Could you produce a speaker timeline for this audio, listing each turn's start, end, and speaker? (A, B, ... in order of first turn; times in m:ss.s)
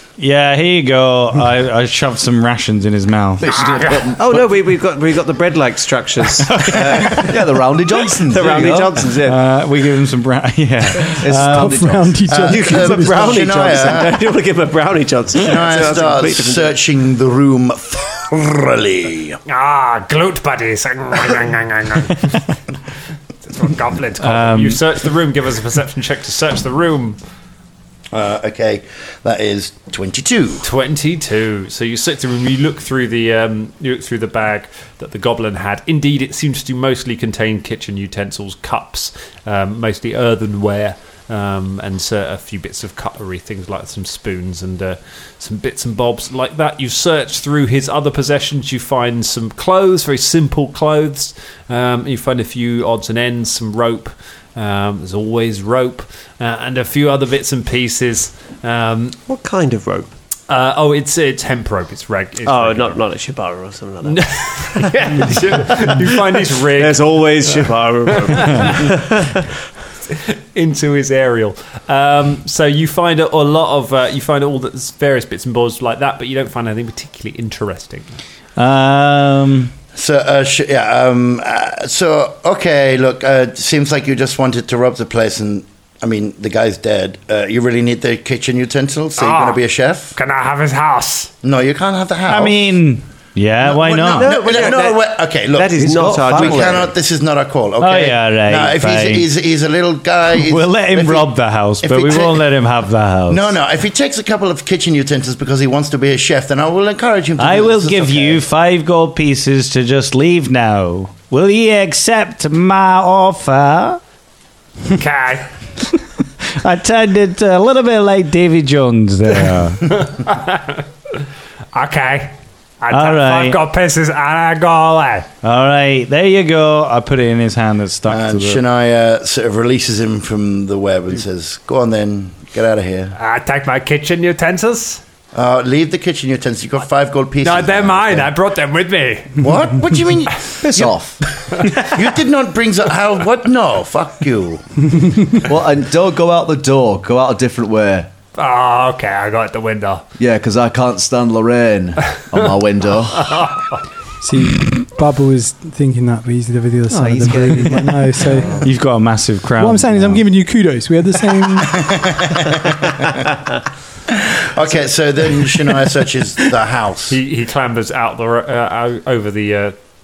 0:00.2-0:03.5 A
0:03.4-0:04.5 B
0:03.6-0:04.1 C
0:04.1-0:07.3 D
0:06.5-0:06.9 A
0:06.6-0:09.1 B
0:08.2-0:09.4 D
0:09.2-0:11.7 A
0:11.0-0:12.3 B
0:11.3-0:13.3 E
0:12.3-0:14.2 F
0:12.4-0:16.7 D
0:15.4-0:19.4 F
0:19.5-0:22.4 C
0:22.1-0:22.4 A
0:23.5-0:27.2 C
0:24.2-0:24.8 A
0:28.1-0:30.6 F
0:30.6-0:59.2 C
0:59.3-1:00.1 D
1:00.5-1:03.0 C
1:02.4-1:09.5 D
1:04.0-1:08.9 C
1:10.1-1:18.1 C
1:18.6-1:19.7 A
1:19.9-1:30.1 F
1:29.2-1:29.6 C
1:30.1-1:31.3 C
1:31.4-1:32.8 F
1:32.3-1:34.3 A
1:33.6-1:42.4 F
1:34.1-1:36.8 D
1:35.8-1:36.9 B
1:37.8-1:39.2 A
1:40.4-1:43.5 A
1:43.3-1:48.4 F
1:47.4-1:54.0 A
1:54.9-1:55.5 C
1:56.6-2:00.1 A
2:00.0-2:00.8 C
2:01.7-2:05.3 C
2:02.9-2:03.6 A
2:05.4-2:08.6 A
2:08.1-2:13.1 F
2:13.2-2:15.0 C
2:15.3-2:18.3 F
2:17.4-2:19.4 C
2:19.4-2:21.0 F
2:20.6-2:21.2 B
2:21.5-2:25.2 F
2:25.4-2:28.1 B
2:28.4-2:30.0 C
2:30.2-2:33.3 B
2:33.2-2:33.7 C
2:34.2-2:38.6 E
2:36.9-2:38.6 B
2:38.6-2:40.2 A
2:39.6-2:41.8 E
2:41.6-2:43.3 F
2:44.1-2:47.2 F
2:47.1-2:49.7 C